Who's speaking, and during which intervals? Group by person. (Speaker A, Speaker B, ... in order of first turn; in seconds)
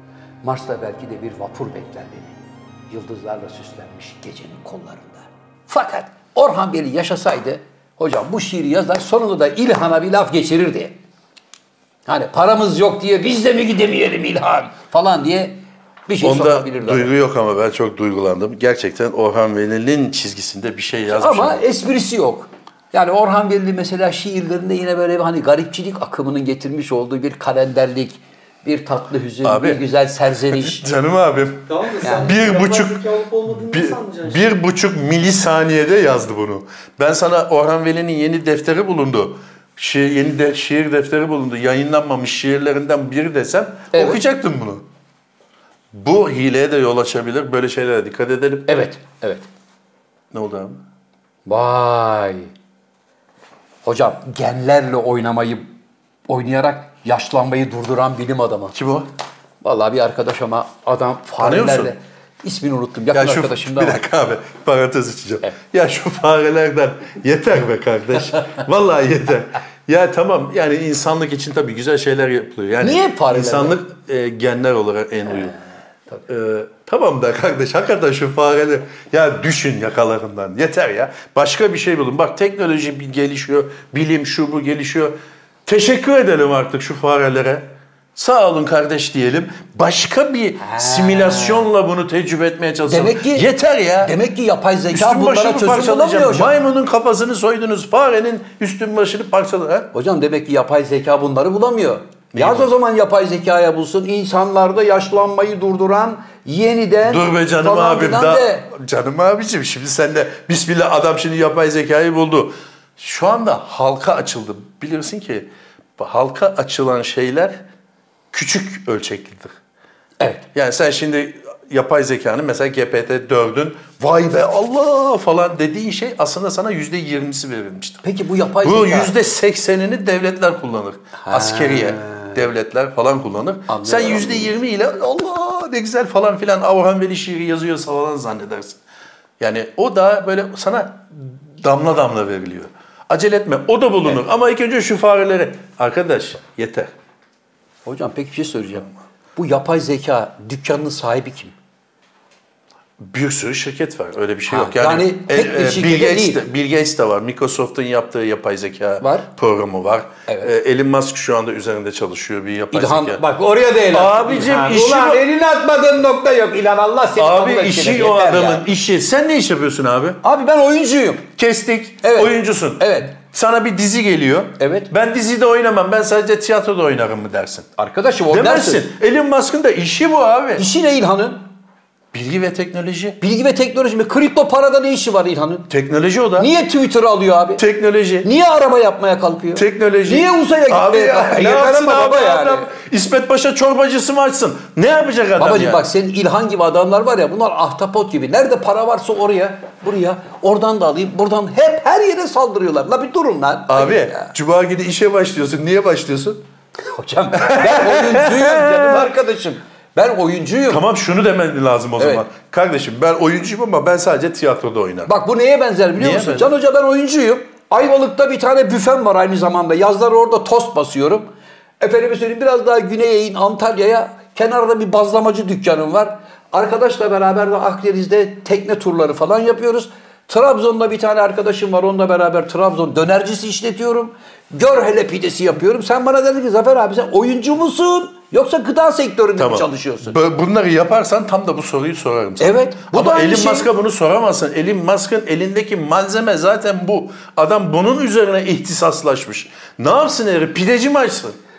Speaker A: 0.4-11.0, 12.1-17.1, 21.1-30.9, 43.9-44.2, 48.7-49.5, 51.5-52.5, 53.8-55.7, 56.3-58.8, 59.6-64.0, 72.8-73.8, 90.6-91.7, 92.9-93.5, 94.0-96.5, 99.9-108.7, 120.2-120.4, 128.0-129.1, 131.2-132.4, 133.7-134.5, 147.8-151.5, 154.5-156.4, 159.0-159.3, 160.3-160.5, 162.7-168.6, 170.2-171.3, 172.0-173.1, 174.6-174.9, 177.8-178.9, 180.6-181.4, 183.2-185.7, 186.4-187.6, 188.2-192.7, 195.4-204.3, 206.9-210.8, 212.0-212.3, 215.1-221.3, 221.8-240.2, 242.4-243.7
Speaker B: 16.2-21.6, 29.4-29.8, 30.5-33.0, 33.7-44.8, 45.9-48.7, 50.3-50.8, 58.7-59.1, 61.4-61.9, 63.1-75.5, 76.3-85.1, 85.7-94.2, 94.9-99.9, 102.3-102.7, 107.0-117.5, 118.3-119.5, 120.5-128.0, 128.6-138.8, 139.4-146.9, 153.0-163.2, 163.9-165.2, 167.2-170.2, 171.4-177.7, 178.3-180.6, 182.1-183.2, 185.7-186.5, 187.6-188.3, 189.5-195.8, 203.7-206.4, 207.3-209.1, 210.7-215.1, 215.9-216.6, 239.4-251.4
Speaker C: 31.7-34.5